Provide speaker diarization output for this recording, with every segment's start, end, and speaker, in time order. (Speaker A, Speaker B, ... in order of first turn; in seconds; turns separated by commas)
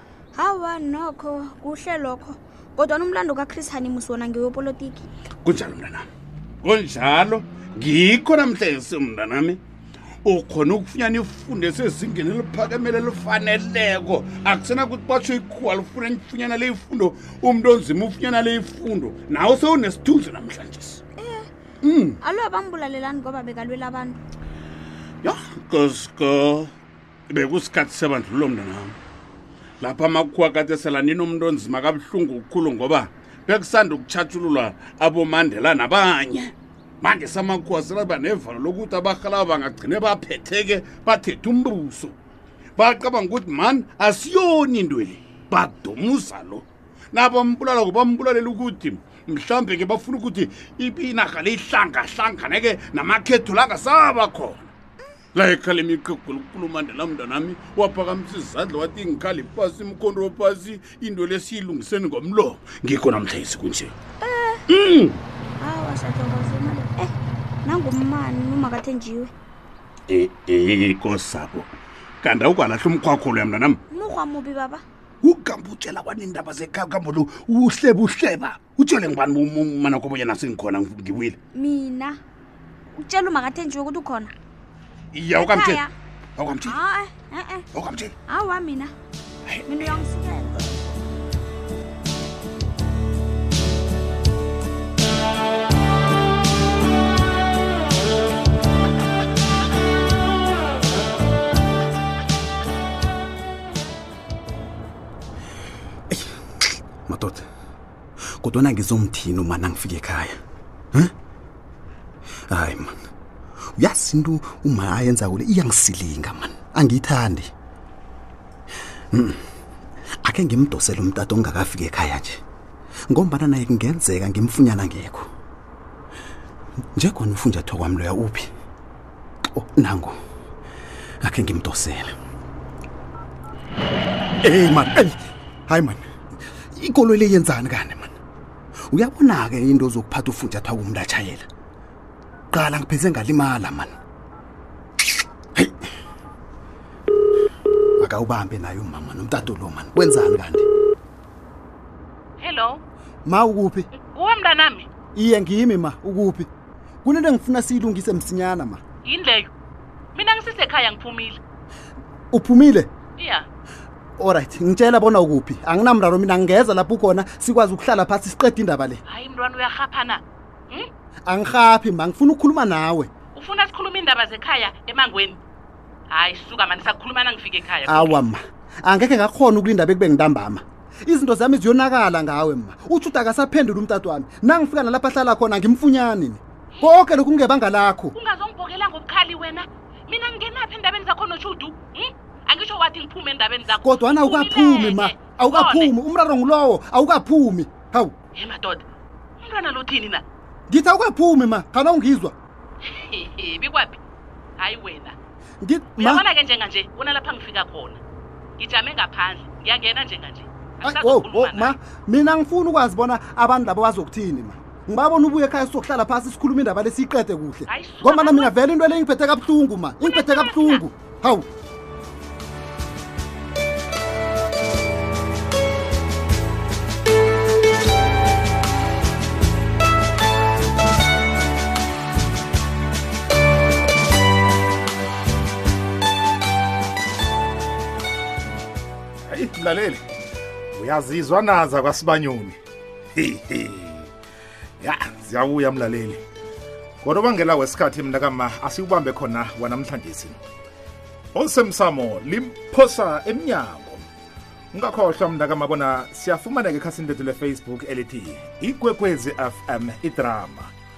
Speaker A: 0.3-5.1, Speaker B: 5.4-6.1, Speaker B: 6.6-9.6, Speaker B: 10.2-21.0, Speaker A: 21.2-21.5, Speaker B: 21.8-22.2, Speaker A: 22.2-24.2, Speaker B: 25.2-26.7, Speaker B: 27.3-28.9, Speaker B: 29.8-42.1, Speaker B: 42.8-54.7, Speaker B: 55.3-63.9, Speaker A: 64.2-64.6, Speaker B: 64.7-65.2, Speaker A: 65.6-67.1, Speaker A: 67.6-69.3, Speaker B: 70.1-73.8, Speaker A: 73.9-74.8, Speaker B: 75.2-81.4, Speaker A: 81.5-82.2, Speaker A: 83.0-84.3, Speaker B: 85.1-85.8, Speaker A: 85.4-85.9, Speaker B: 86.4-86.8, Speaker A: 86.6-87.7, Speaker B: 87.7-88.1, Speaker A: 88.3-88.9, Speaker B: 89.5-89.7, Speaker A: 89.6-90.7, Speaker C: 107.1-107.4, Speaker C: 108.4-110.3, Speaker C: 112.5-113.0, Speaker C: 113.8-117.5, Speaker C: 119.1-119.4, Speaker C: 120.2-122.4, Speaker C: 123.1-125.3, Speaker C: 126.9-128.5, Speaker C: 129.5-130.2, Speaker C: 131.2-132.1, Speaker C: 134.4-135.2, Speaker C: 135.7-136.0, Speaker C: 136.8-138.1, Speaker C: 138.9-141.5, Speaker C: 142.5-143.9, Speaker C: 148.0-150.7, Speaker D: 152.4-152.8, Speaker C: 153.2-153.9, Speaker D: 154.0-154.9, Speaker C: 155.1-156.5, Speaker C: 157.0-158.8, Speaker D: 159.0-159.5, Speaker D: 160.1-161.4, Speaker C: 162.3-162.9, Speaker D: 163.2-163.5, Speaker C: 164.2-169.0, Speaker D: 169.1-170.9, Speaker C: 171.2-173.1, Speaker D: 173.3-175.4, Speaker D: 176.1-178.2, Speaker C: 177.8-188.1, Speaker D: 188.1-195.9, Speaker C: 193.8-198.1, Speaker D: 198.3-198.8, Speaker D: 199.4-200.2, Speaker C: 200.7-202.3, Speaker D: 202.9-204.0, Speaker D: 204.6-205.1, Speaker C: 205.6-206.2, Speaker D: 206.0-208.0, Speaker D: 208.6-211.8, Speaker C: 210.8-221.5, Speaker D: 217.7-218.5, Speaker D: 220.0-220.8, Speaker E: 239.3-240.0, Speaker E: 240.7-242.6, Speaker E: 243.2-244.1, Speaker E: 244.8-246.2, Speaker E: 247.0-250.4, Speaker E: 251.3-254.1, Speaker E: 254.7-260.7